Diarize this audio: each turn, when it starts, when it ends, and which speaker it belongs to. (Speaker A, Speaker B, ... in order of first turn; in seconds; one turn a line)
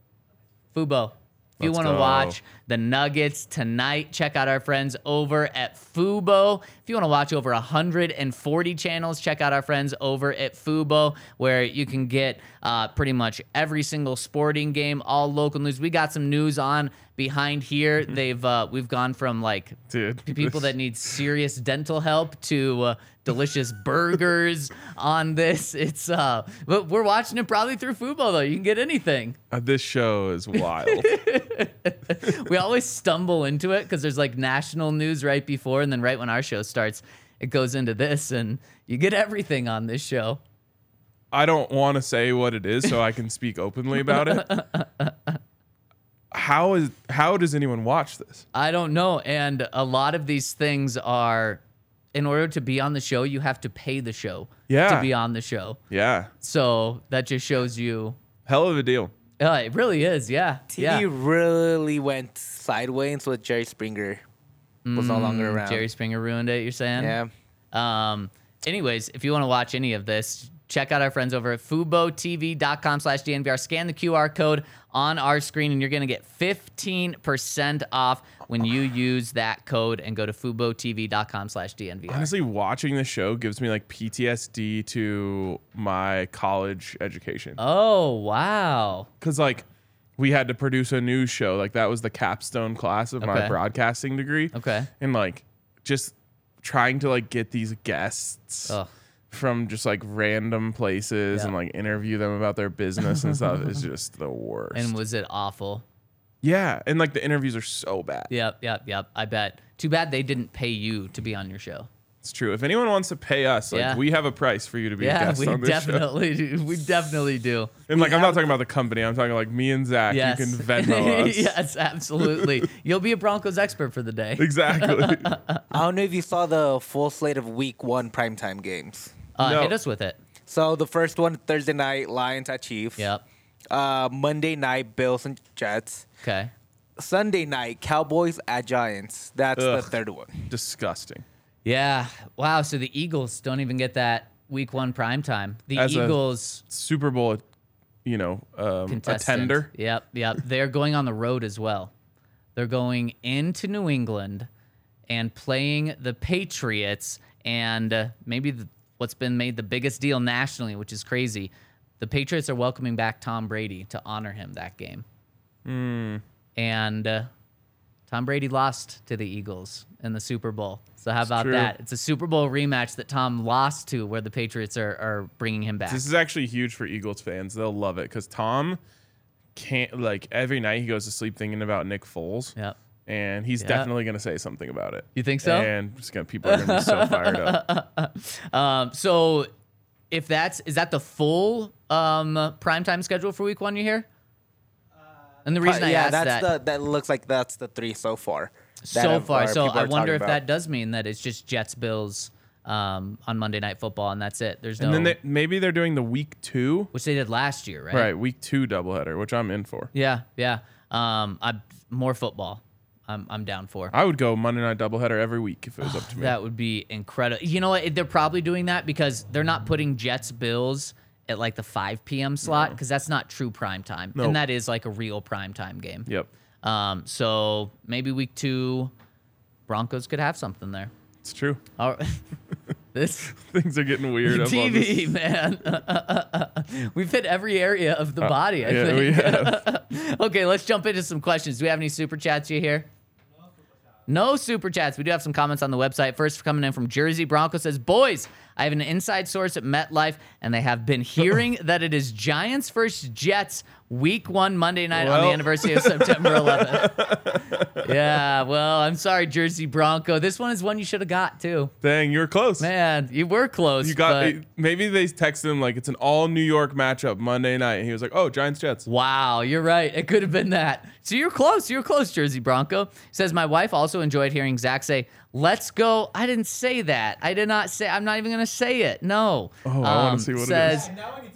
Speaker A: 0.7-29.4
Speaker B: 1.6-2.4
Speaker B: 19.9-20.7
Speaker B: 29.5-31.2
Speaker A: 30.8-40.4
Speaker B: 41.3-44.5
Speaker A: 44.0-45.4
Speaker B: 46.3-48.5
Speaker A: 48.5-51.6
Speaker A: 52.1-55.8
Speaker B: 54.7-55.1
Speaker B: 55.9-56.3
Speaker A: 56.4-58.2
Speaker B: 58.5-59.1
Speaker A: 59.4-61.1
Speaker C: 60.7-64.2
Speaker A: 64.8-67.2
Speaker C: 65.0-65.9
Speaker C: 67.0-67.3
Speaker A: 67.7-82.3
Speaker B: 82.1-87.6
Speaker A: 87.6-89.1
Speaker B: 89.2-89.7
Speaker B: 90.2-98.8
Speaker A: 93.2-93.6
Speaker A: 94.5-94.9
Speaker B: 99.3-105.0
Speaker A: 104.7-105.8
Speaker B: 106.4-108.3
Speaker A: 108.3-111.9
Speaker B: 112.2-116.0
Speaker A: 113.7-114.0
Speaker A: 115.0-118.4
Speaker B: 117.9-121.6
Speaker A: 120.1-125.6
Speaker B: 122.2-122.6
Speaker B: 124.4-125.3
Speaker C: 125.7-129.2
Speaker A: 129.4-130.2
Speaker B: 129.4-129.8
Speaker C: 130.5-133.1
Speaker A: 133.0-133.2
Speaker C: 133.7-136.1
Speaker A: 136.2-136.5
Speaker C: 137.0-140.5
Speaker B: 139.6-139.9
Speaker B: 140.5-141.2
Speaker A: 141.7-146.6
Speaker B: 145.8-147.4
Speaker B: 148.1-149.7
Speaker A: 148.9-151.9
Speaker A: 152.6-154.5
Speaker A: 155.1-165.1
Speaker B: 165.7-166.2
Speaker A: 166.6-167.3
Speaker A: 168.1-176.0
Speaker B: 171.2-171.7
Speaker B: 175.9-178.8
Speaker B: 179.6-182.6
Speaker B: 183.1-187.6
Speaker A: 183.6-183.9
Speaker A: 185.2-185.7
Speaker A: 186.4-189.5
Speaker A: 190.1-194.1
Speaker A: 195.4-196.5
Speaker C: 195.6-200.4
Speaker A: 198.8-205.2
Speaker B: 204.8-206.9
Speaker A: 206.9-208.1
Speaker B: 207.9-209.9
Speaker A: 209.9-213.9
Speaker B: 213.9-216.3
Speaker A: 215.8-226.1
Speaker B: 222.4-222.8
Speaker A: 226.6-228.9
Speaker A: 229.7-230.9
Speaker B: 231.2-231.6
Speaker A: 231.8-232.2
Speaker A: 232.9-233.3
Speaker B: 233.3-235.1
Speaker A: 234.3-242.9
Speaker B: 238.2-239.6
Speaker A: 244.1-261.7
Speaker B: 254.9-258.0
Speaker B: 261.8-262.7
Speaker A: 262.6-264.4
Speaker B: 263.8-268.9
Speaker A: 268.9-280.9
Speaker B: 279.6-280.9